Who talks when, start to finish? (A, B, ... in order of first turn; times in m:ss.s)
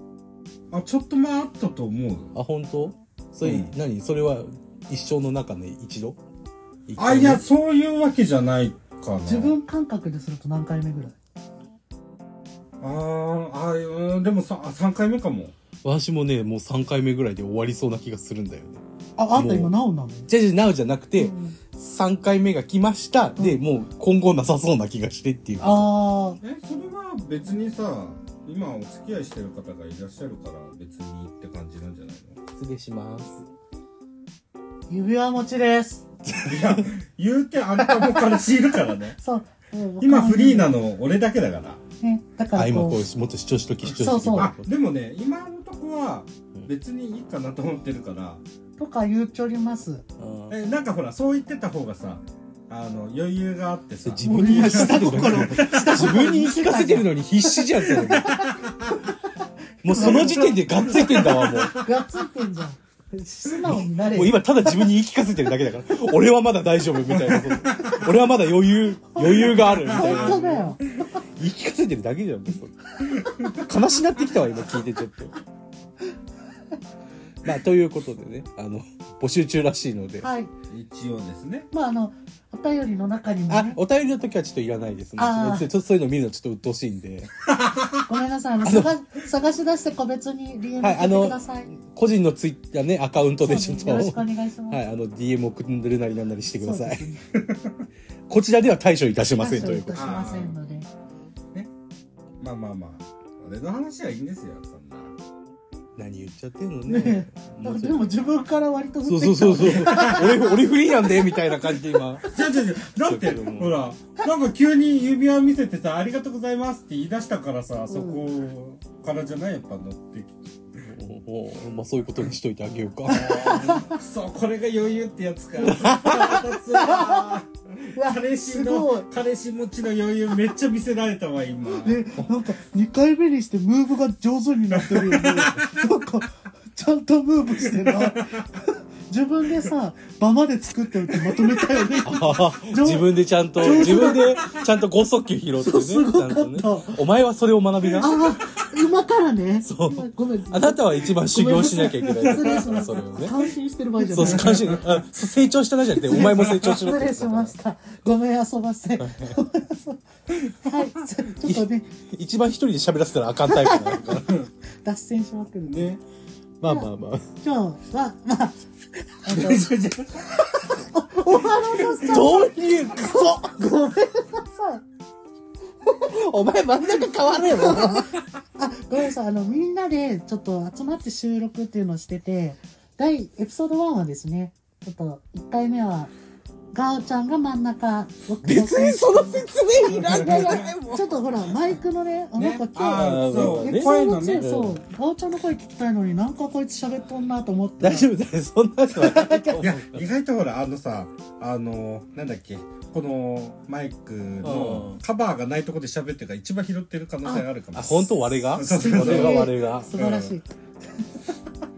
0:00.7-0:02.3 A
0:02.3-0:06.2 B
0:03.4-0:03.7 A
0:06.9-0:07.4 B
0:07.0-0:09.6 A
0:09.3-0:11.2 C
0:12.8-0:15.5 A
0:15.8-0:18.8 B
0:19.2-0:20.3 C
0:19.3-0:19.7 B
0:20.3-0:25.9 B
0:21.2-0:21.6 C
0:25.6-0:26.4 C
0:26.4-0:32.4 A
0:32.6-0:33.4 B
0:34.9-0:36.0 C
0:36.3-0:36.9 B
0:36.4-0:39.2 A
0:37.9-0:38.4 C
0:39.2-0:40.8 C
0:40.0-0:41.8 A
0:42.0-0:43.0 C
0:42.6-0:44.6 B
0:43.9-0:44.5 C
0:44.4-0:48.4 A
0:48.8-0:50.0 C
0:50.2-0:50.6 B
0:50.5-0:56.2 A
0:54.0-0:58.4 B
0:54.2-0:58.4 C
0:58.0-0:59.0 A
0:59.8-1:01.8 B
0:59.9-1:04.9 C
1:00.0-1:01.9 A
1:03.6-1:10.6 B
1:07.2-1:08.0 A
1:09.2-1:10.8 A
1:09.2-1:10.8 C
1:11.4-1:15.4 B
1:17.4-1:20.3 B
1:20.2-1:20.5 C
1:20.7-1:21.7 A
1:21.7-1:23.8 C
1:23.5-1:27.5 B
1:25.2-1:25.7 C
1:28.1-1:31.8 C
1:28.6-1:28.9 B
1:30.8-1:31.4 B
1:31.9-1:37.1 B
1:33.4-1:34.8 C
1:36.6-1:37.2 C
1:37.4-1:37.8 A
1:38.3-1:40.0 B
1:39.4-1:40.9 C
1:39.9-1:40.6 A
1:42.4-1:45.1 A
1:46.0-1:48.2 B
1:46.9-1:51.8 C
1:49.1-1:52.3 B
1:49.9-1:50.2 A
1:52.3-2:00.8 A
1:53.0-1:53.8 B
1:57.9-1:58.2 C
2:00.9-2:03.8 B
2:03.0-2:12.0 A
2:03.1-2:04.0 C
2:05.6-2:06.4 B
2:06.2-2:07.4 C
2:07.9-2:09.1 C
2:11.8-2:24.4 C
2:14.8-2:15.7 A
2:17.7-2:18.3 A
2:22.1-2:28.2 B
2:23.6-2:24.3 A
2:25.6-2:27.0 C
2:28.0-2:35.0 C
2:29.6-2:33.4 B
2:32.2-2:32.8 A
2:34.1-2:37.5 B
2:34.3-2:34.8 A
2:36.0-2:40.0 C
2:36.1-2:36.7 A
2:39.0-2:39.4 B
2:40.6-2:41.9 C
2:41.5-2:44.4 B
2:43.5-2:44.3 C
2:44.8-2:46.0 C
2:45.7-2:46.0 A
2:46.6-2:47.3 B
2:46.6-2:48.6 C
2:49.2-2:49.7 C
2:49.3-2:50.5 A
2:50.6-2:54.8 C
2:51.7-2:52.2 A
2:52.0-2:53.5 B
2:56.0-2:58.2 B
2:57.4-2:58.0 C
2:58.6-3:06.1 C
3:06.7-3:18.1 C
3:08.4-3:11.5 B
3:10.0-3:10.7 A
3:12.4-3:14.6 A
3:12.9-3:14.8 B
3:17.8-3:20.0 B
3:18.9-3:19.6 C
3:19.6-3:30.3 A
3:24.4-3:25.0 B
3:27.8-3:29.9 B
3:28.6-3:30.5 C
3:31.0-3:31.3 C